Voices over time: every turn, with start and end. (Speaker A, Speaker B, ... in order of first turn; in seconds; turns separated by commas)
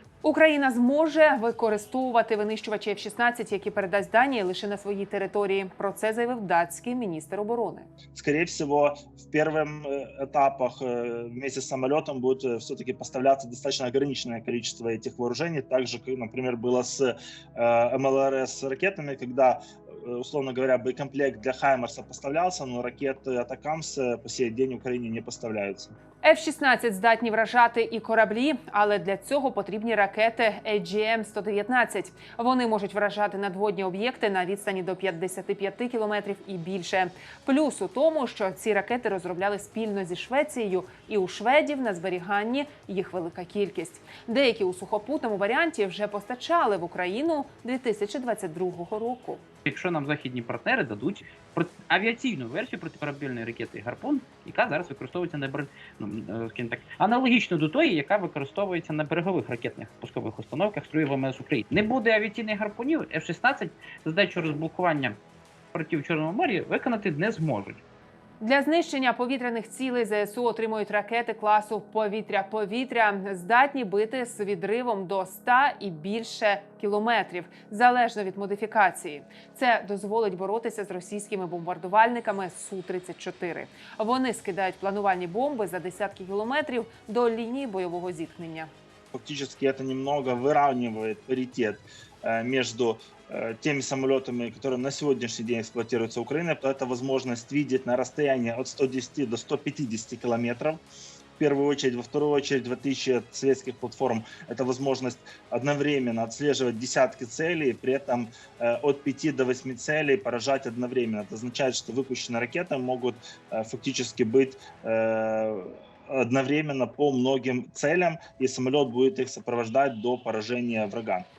Speaker A: 0.2-7.9, Speaker B: 8.1-25.9, Speaker A: 26.2-49.4, Speaker C: 49.6-65.2, Speaker C: 65.7-67.8, Speaker A: 68.4-88.7, Speaker B: 89.1-100.8, Speaker B: 101.4-121.2